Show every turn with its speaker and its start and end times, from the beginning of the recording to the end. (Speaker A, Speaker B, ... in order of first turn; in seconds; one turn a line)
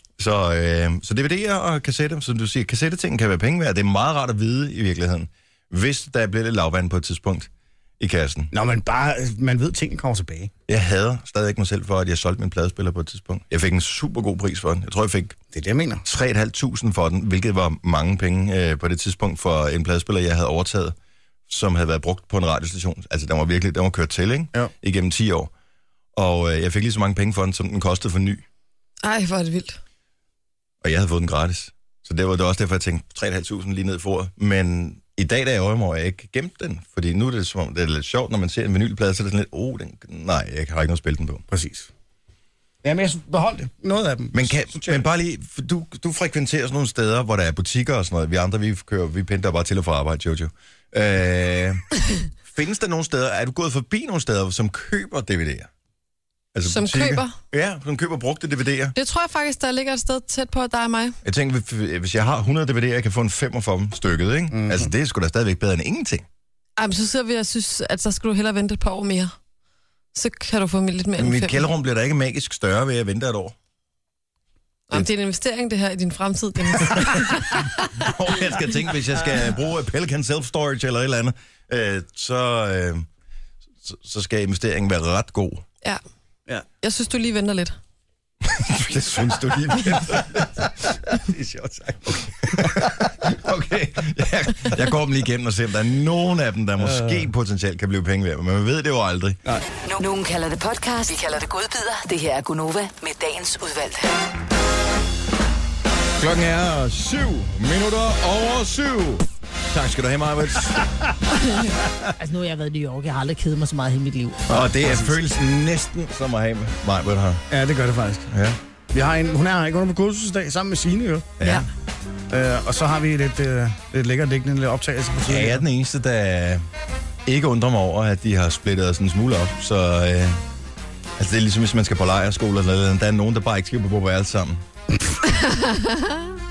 Speaker A: 0.2-8.5
Speaker B: 8.5-10.5
Speaker A: 10.7-15.4
Speaker B: 15.5-16.0
Speaker A: 16.0-20.9
Speaker A: 21.5-25.5
Speaker A: 26.1-28.4
Speaker C: 29.0-29.8
Speaker A: 30.8-41.4
Speaker B: 41.5-41.9
Speaker B: 42.8-45.0
Speaker A: 44.3-51.8
Speaker A: 52.4-55.7
Speaker A: 56.5-58.9
Speaker C: 56.7-57.3
Speaker C: 58.9-61.2
Speaker A: 61.2-66.2
Speaker B: 64.5-64.9
Speaker C: 66.8-69.3
Speaker C: 70.1-71.7
Speaker A: 71.2-73.5
Speaker C: 74.9-77.9
Speaker A: 76.8-83.0
Speaker A: 83.8-85.6
Speaker C: 86.8-87.8
Speaker A: 88.4-90.7
Speaker B: 91.1-93.1
Speaker A: 92.1-99.4
Speaker B: 96.8-97.3
Speaker D: 99.8-104.1
Speaker A: 106.2-110.9
Speaker E: 112.2-114.4
Speaker A: 114.5-117.4
Speaker B: 114.8-115.1
Speaker B: 117.5-118.3
Speaker A: 118.3-118.6
Speaker B: 118.9-121.5
Speaker A: 121.4-121.6
Speaker B: 122.3-125.6
Speaker A: 125.3-126.6
Speaker A: 127.2-130.4
Speaker A: 131.2-134.6
Speaker C: 135.5-136.1